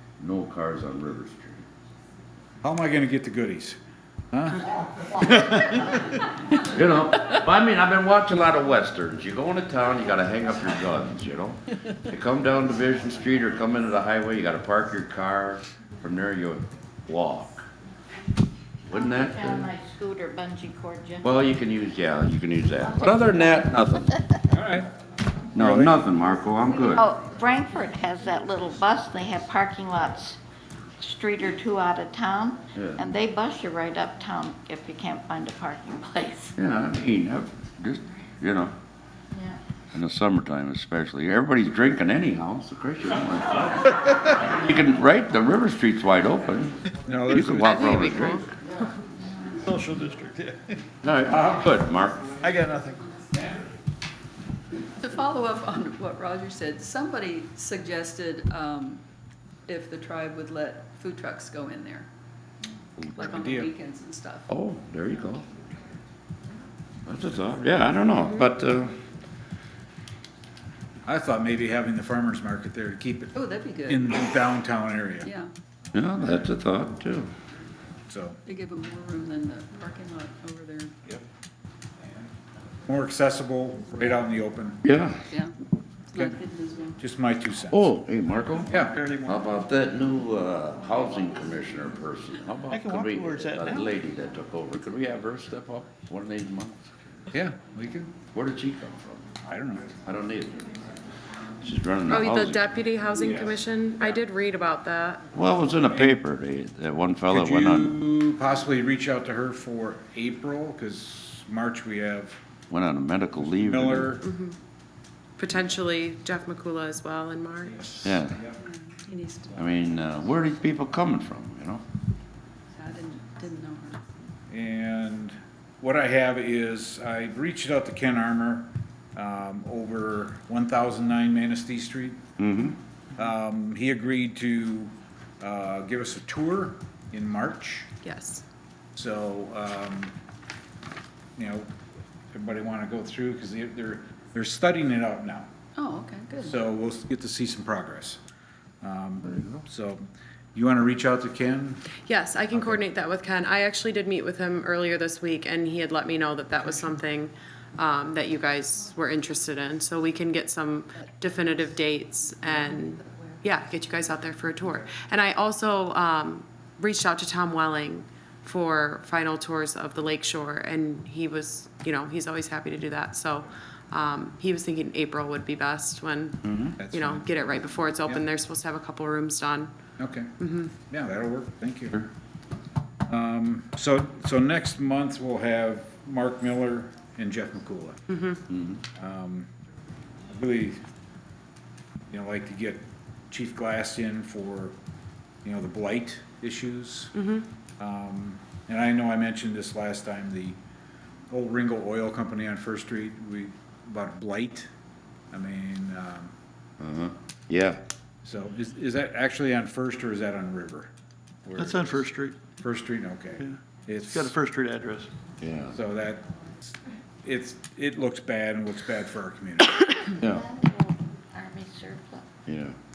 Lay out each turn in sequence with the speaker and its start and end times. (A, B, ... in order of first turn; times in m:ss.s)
0:00.2-0:01.6 A
0:02.6-0:03.8 B
0:04.3-0:06.0 B
0:06.6-0:17.7 A
0:18.8-0:19.7 A
0:18.9-0:21.2 C
0:21.2-0:24.4 A
0:24.5-0:24.9 B
0:25.5-0:27.1 A
0:25.6-0:26.0 B
0:26.9-0:30.4 C
0:31.0-0:36.5 C
0:32.7-0:33.0 A
0:36.6-0:38.7 A
0:39.3-0:39.6 C
0:39.9-0:48.5 A
0:47.0-0:47.7 B
0:47.6-0:48.5 D
0:49.6-0:50.8 E
0:51.0-0:52.3 A
0:51.3-0:51.6 B
0:52.4-0:53.0 E
0:55.0-0:59.0 F
0:59.7-1:02.1 F
1:03.0-1:03.3 A
1:03.2-1:04.5 F
1:03.2-1:03.7 B
1:04.5-1:05.5 A
1:07.0-1:09.0 A
1:11.0-1:13.3 B
1:13.3-1:14.1 F
1:13.8-1:15.3 B
1:15.2-1:15.5 F
1:15.9-1:17.3 A
1:18.1-1:18.4 B
1:18.4-1:21.0 F
1:22.9-1:24.8 B
1:24.8-1:25.2 A
1:26.1-1:27.0 F
1:27.0-1:27.9 B
1:27.7-1:36.9 A
1:28.7-1:29.0 B
1:28.8-1:29.4 E
1:32.7-1:33.9 E
1:37.3-1:38.1 B
1:38.3-1:39.3 A
1:39.4-1:40.0 B
1:40.0-1:40.7 A
1:41.6-1:42.7 A
1:42.1-1:45.3 D
1:43.2-1:43.5 B
1:45.3-1:48.0 A
1:47.3-1:52.4 B
1:52.7-1:54.1 A
1:53.4-1:54.2 B
1:54.2-1:54.6 D
1:55.4-1:57.8 D
1:57.7-1:58.6 B
1:58.0-1:58.4 A
1:58.6-1:59.6 F
1:59.5-2:01.8 A
2:02.7-2:04.0 F
2:04.5-2:12.2 B
2:12.4-2:12.8 A
2:13.2-2:17.9 B
2:18.0-2:18.4 D
2:19.0-2:20.1 B
2:21.4-2:21.7 B
2:22.3-2:25.5 B
2:25.8-2:26.6 F
2:26.4-2:28.2 B
2:28.8-2:30.0 B
2:29.3-2:29.6 A
2:30.5-2:31.9 B
2:32.0-2:59.7 D
2:32.5-2:32.8 B
2:42.4-2:43.3 F
2:56.4-2:56.8 A
2:56.8-2:57.3 B
3:00.0-3:02.0 B
3:00.4-3:00.7 D
3:03.1-3:08.0 B
3:08.5-3:08.8 A
3:08.9-3:09.5 B
3:10.3-3:10.8 B
3:12.1-3:14.7 B
3:15.4-3:17.1 B
3:17.2-3:17.4 D
3:17.8-3:20.6 B
3:21.3-3:24.7 B
3:25.3-3:26.3 B
3:26.8-3:27.8 A
3:28.2-3:30.9 B
3:31.4-3:34.4 B
3:31.6-3:32.4 E
3:34.1-3:35.1 E
3:35.4-3:35.8 A
3:35.7-3:40.0 B
3:40.1-3:42.2 C
3:40.2-3:40.4 A
3:42.4-3:42.8 A